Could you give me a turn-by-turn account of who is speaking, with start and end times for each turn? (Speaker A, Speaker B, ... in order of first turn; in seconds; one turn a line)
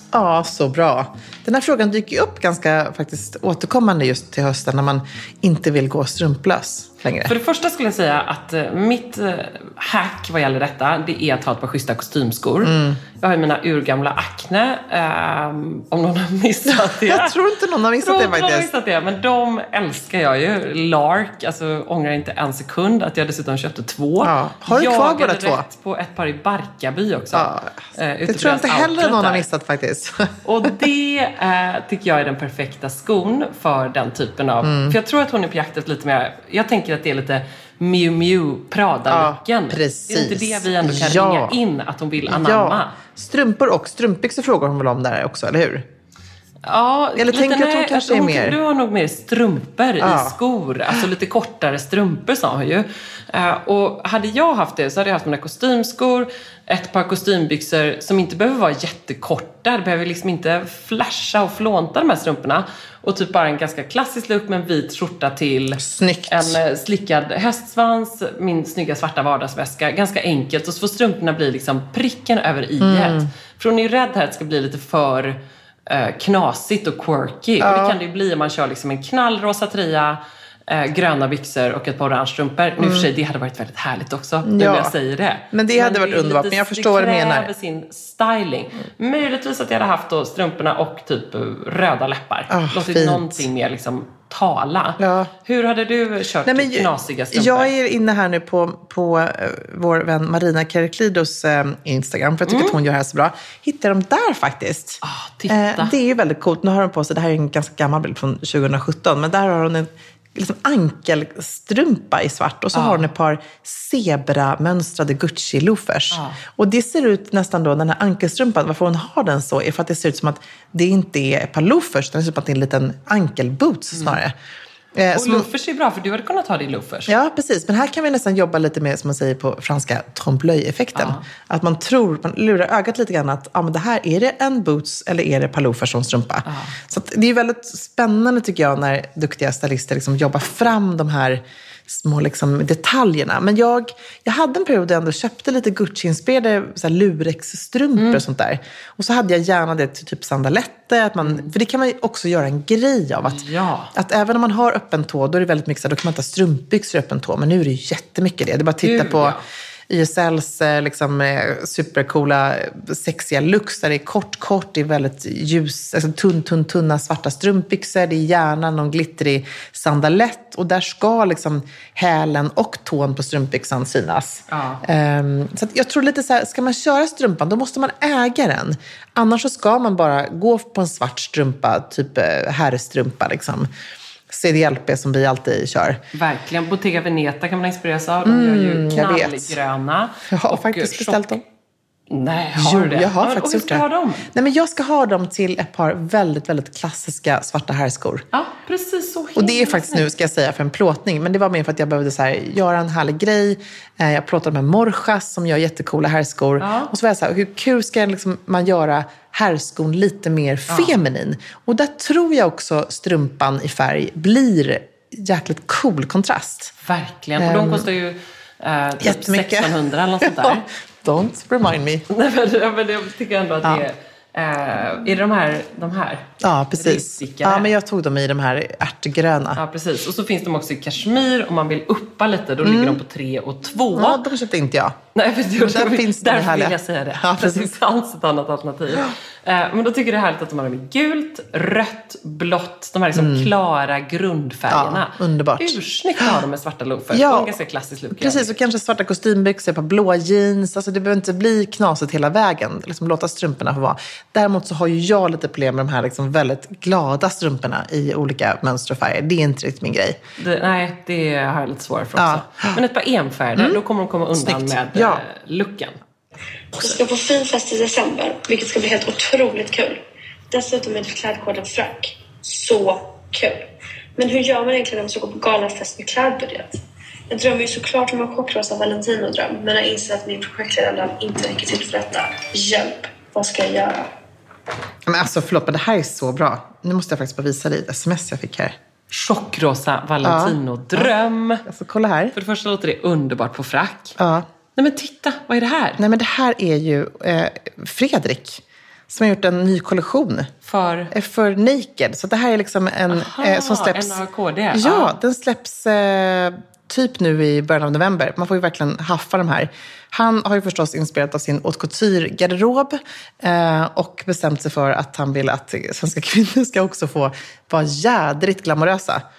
Speaker A: 0.1-7.3
Speaker B: 7.2-17.3
Speaker A: 12.6-13.0
Speaker A: 16.7-18.7
Speaker B: 18.0-29.4
Speaker A: 24.2-25.6
Speaker A: 27.3-30.7
Speaker B: 30.4-42.9
Speaker A: 34.6-35.0
Speaker A: 39.1-41.6
Speaker A: 42.2-45.9
Speaker B: 46.6-97.7
Speaker A: 47.2-48.6
Speaker A: 50.0-50.4
Speaker A: 65.8-66.6
Speaker A: 72.8-73.3
Speaker A: 77.6-78.0
Speaker A: 82.8-83.1
Speaker A: 84.4-84.9
Speaker A: 85.5-87.5
Speaker A: 92.5-93.5
Speaker A: 95.0-95.3
Speaker A: 96.5-124.3
Speaker B: 102.4-102.8
Speaker B: 105.0-105.9
Speaker B: 112.7-113.1
Speaker B: 116.1-116.4
Speaker B: 123.9-124.2
Speaker A: 124.9-125.5
Speaker B: 125.1-127.1
Speaker A: 127.1-159.4
Speaker B: 130.9-131.2
Speaker B: 136.5-136.8
Speaker B: 147.9-148.2
Speaker B: 151.2-151.5
Speaker B: 153.2-153.9
Speaker B: 158.8-159.4
Speaker A: 159.9-183.7
Speaker B: 174.5-174.8
Speaker A: 184.3-186.0
Speaker B: 186.1-191.4
Speaker A: 188.2-189.6
Speaker A: 190.3-191.4
Speaker B: 192.1-194.3
Speaker A: 192.6-198.2
Speaker B: 198.3-200.1
Speaker A: 199.4-216.7
Speaker B: 206.6-206.9
Speaker B: 210.7-211.0
Speaker B: 216.8-220.7
Speaker A: 217.4-217.9
Speaker A: 219.0-222.0
Speaker B: 222.1-226.2
Speaker A: 226.4-229.6
Speaker B: 226.8-227.7
Speaker B: 229.6-234.2
Speaker A: 232.6-233.0
Speaker A: 233.9-235.0
Speaker B: 235.1-248.5
Speaker A: 235.6-237.7
Speaker A: 243.1-243.5
Speaker A: 244.7-246.4
Speaker A: 247.1-247.5
Speaker A: 248.1-260.2
Speaker B: 260.4-266.0
Speaker A: 262.1-262.8
Speaker A: 264.3-265.2
Speaker C: 266.8-284.1
Speaker A: 285.1-288.8
Speaker B: 289.1-291.6
Speaker A: 290.2-291.1
Speaker A: 291.6-292.3
Speaker B: 292.3-294.2
Speaker A: 294.2-294.5
Speaker B: 294.8-296.0
Speaker A: 296.0-300.5
Speaker B: 300.6-301.1
Speaker A: 301.1-304.2
Speaker B: 303.1-305.1
Speaker A: 304.7-319.2